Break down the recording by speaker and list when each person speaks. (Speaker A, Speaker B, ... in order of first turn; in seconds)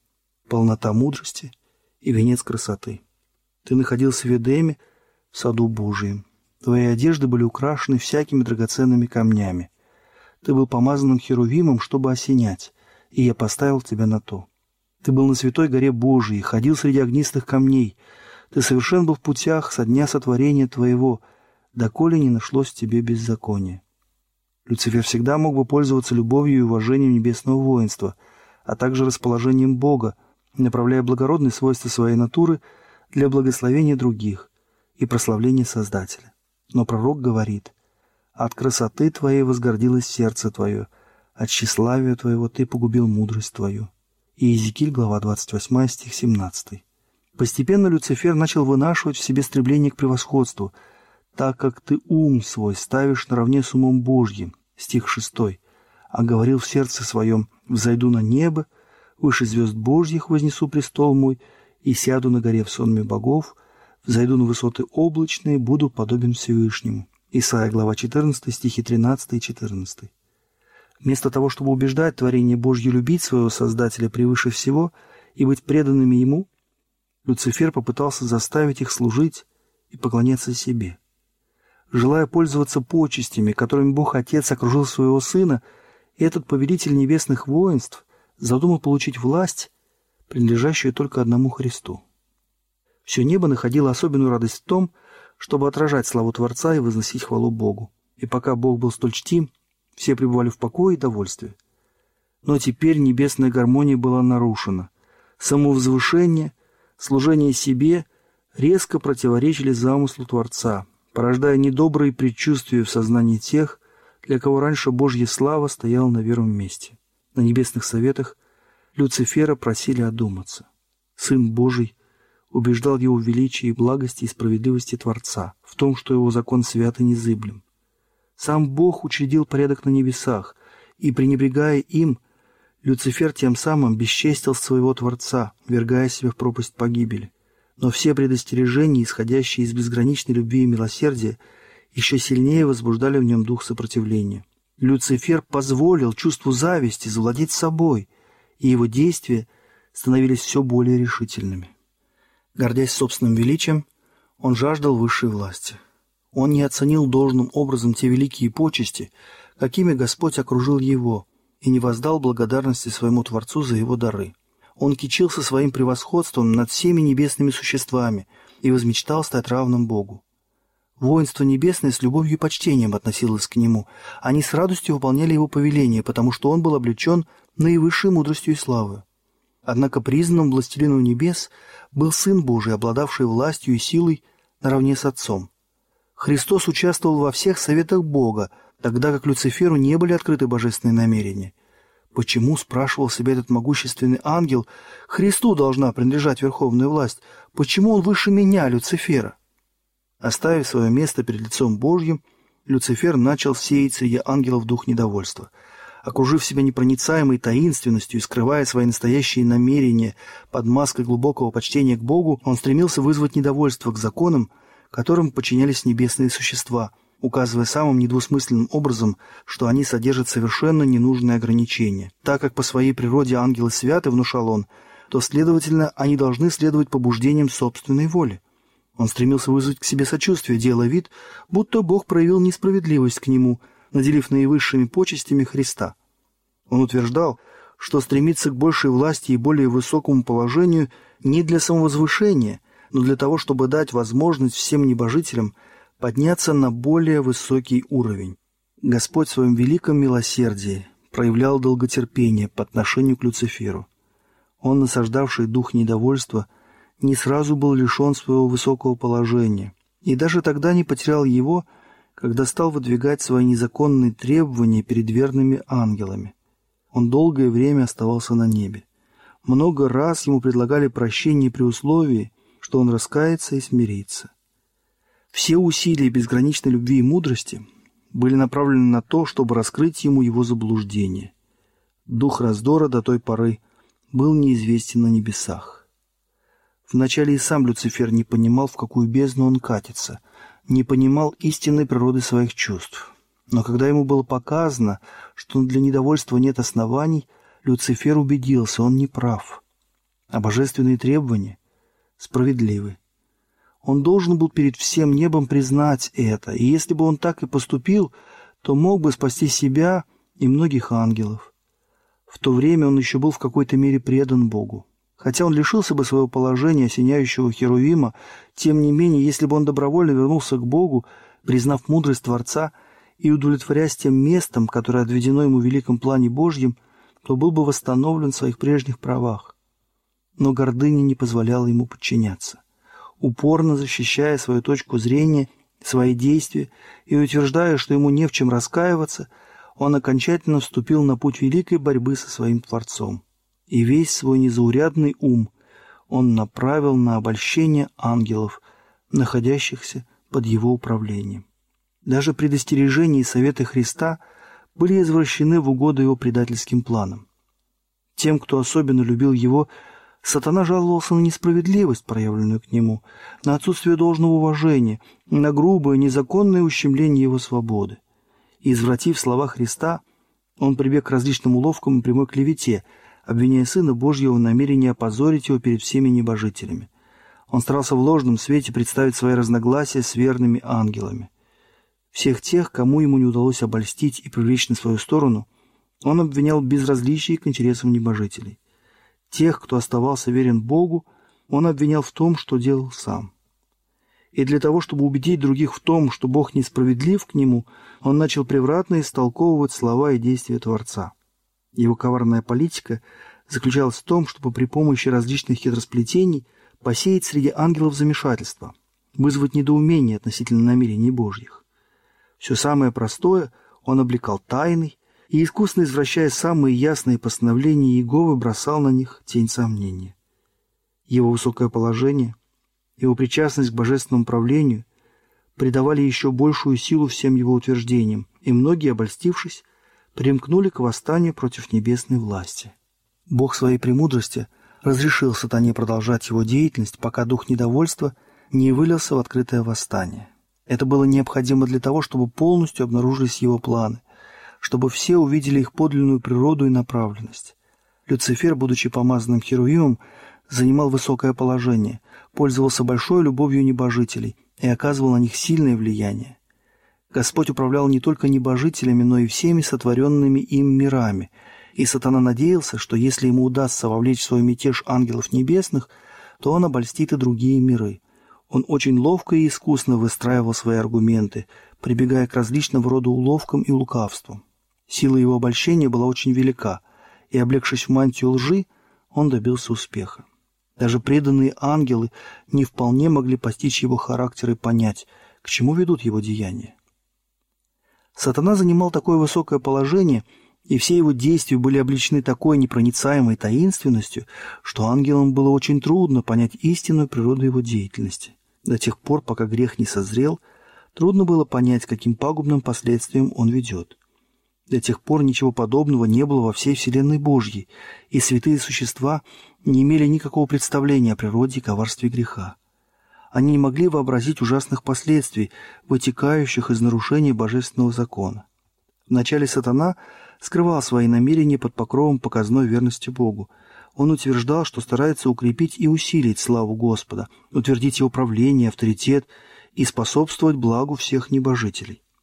Speaker A: 0.5-3.0, 3.6-4.8, 5.3-9.7, 10.4-14.5, 15.0-18.0, 18.5-21.2, 21.8-23.8, 24.7-32.6, 33.1-37.7, 38.4-46.8, 47.4-50.7, 51.4-55.6, 56.1-58.7, 59.2-70.1, 71.0-76.5, 77.2-81.0, 81.9-85.6, 86.2-89.7, 90.3-92.0, 93.0-101.6, 102.4-118.4, 119.0-122.0, 122.5-127.6, 128.4-132.2, 132.8-141.4, 141.9-148.1, 148.6-151.7, 152.6-153.8, 154.4-155.8, 156.3-170.2, 171.0-179.0, 179.7-185.5, 186.2-191.5, 192.1-199.4, 200.2-205.5, 206.0-228.4, 229.0-235.9, 236.7-253.9, 254.6-256.5, 257.0-266.3, 266.9-268.9, 269.4-274.3, 275.3-281.3, 282.1-283.6, 284.1-285.9, 286.9-299.6, 300.3-301.6, 302.2-303.0, 303.8-311.5, 312.3-329.6, 330.4-332.6, 333.2-345.5, 346.1-348.6, 349.1-351.4, 352.1-354.2, 354.8-357.2, 358.2-359.7, 360.2-368.0, 368.6-370.0, 370.6-376.9, 377.5-381.3, 382.1-385.5, 386.0-388.6, 389.3-393.3, 394.3-401.1, 401.8-411.6, 412.4-420.1, 421.1-422.4, 423.0-424.9, 425.6-432.7, 433.3-444.0, 444.6-447.6, 448.1-456.4, 457.1-480.3, 480.8-486.8, 488.2-500.4, 500.9-504.0, 504.7-512.6, 513.3-518.5, 519.1-532.0